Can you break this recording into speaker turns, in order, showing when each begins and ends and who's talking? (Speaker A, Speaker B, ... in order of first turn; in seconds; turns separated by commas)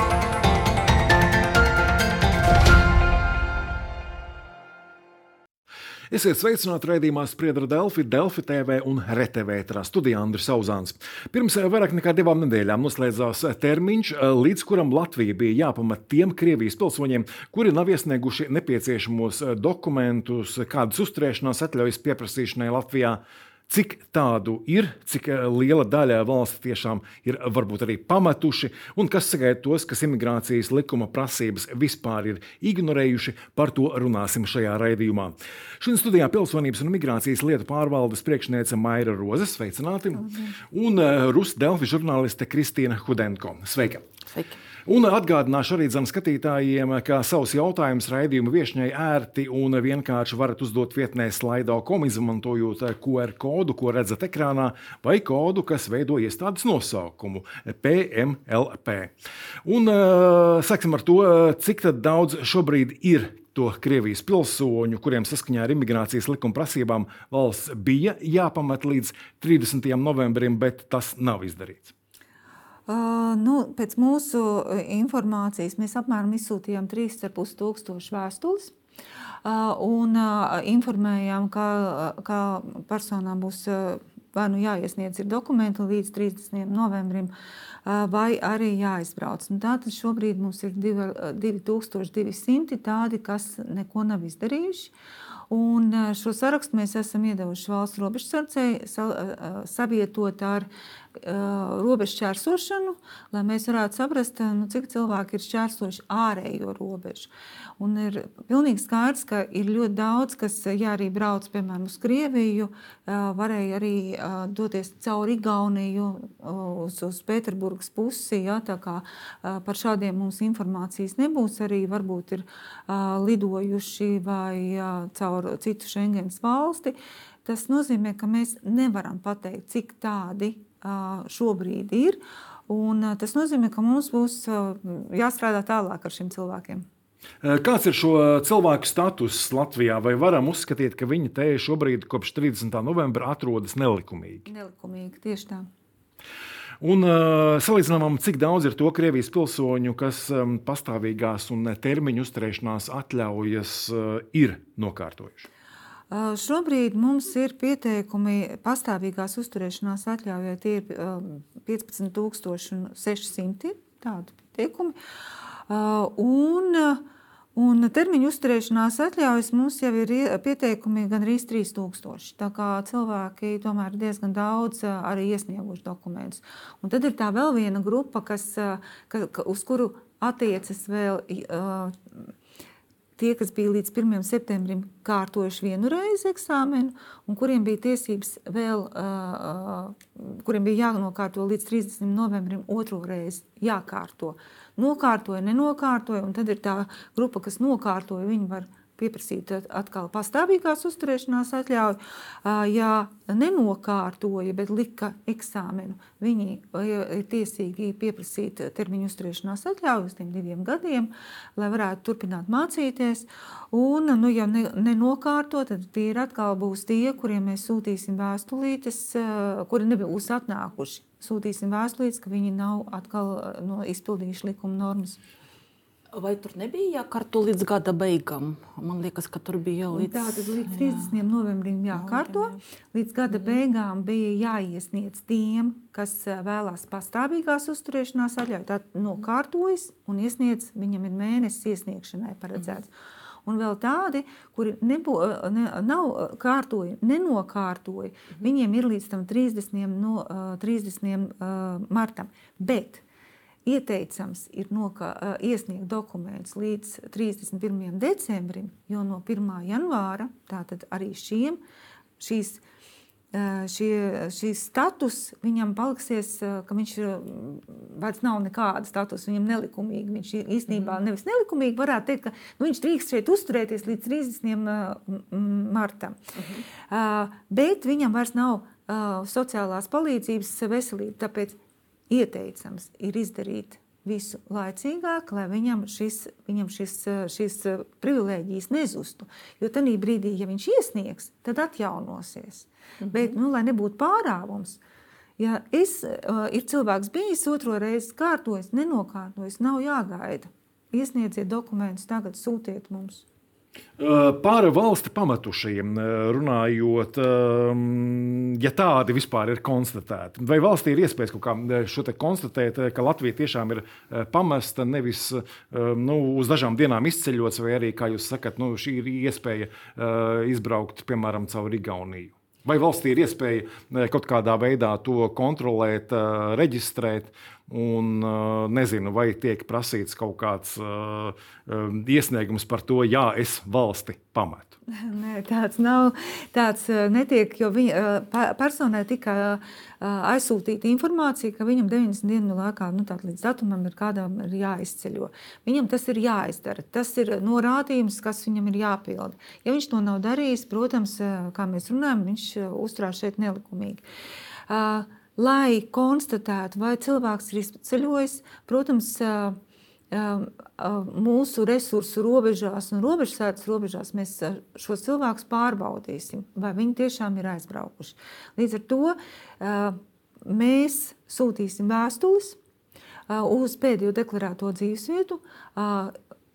Speaker A: 6.1-44.0, Speaker B: 44.3-44.6, Speaker A: 44.9-59.1, Speaker A: 59.6-71.9, Speaker C: 72.9-78.7, Speaker C: 79.5-87.3, Speaker C: 87.8-94.9, Speaker C: 95.5-136.8, Speaker A: 137.4-144.5, Speaker C: 144.5-145.7, Speaker A: 146.8-155.5, Speaker C: 156.1-165.0, Speaker C: 165.7-167.0, Speaker C: 167.6-182.3, Speaker C: 183.2-225.2, Speaker B: 226.1-231.1, Speaker C: 229.9-242.9, Speaker B: 232.1-232.4, Speaker C: 243.5-253.0, Speaker C: 253.7-261.6, Speaker C: 262.2-262.6, Speaker C: 263.3-276.2, Speaker B: 276.4-276.6, Speaker C: 276.9-281.6, Speaker C: 282.1-294.8, Speaker C: 295.4-303.2, Speaker A: 304.0-334.8, Speaker C: 334.9-354.0, Speaker C: 354.7-359.6, Speaker C: 360.1-372.6, Speaker C: 373.3-376.1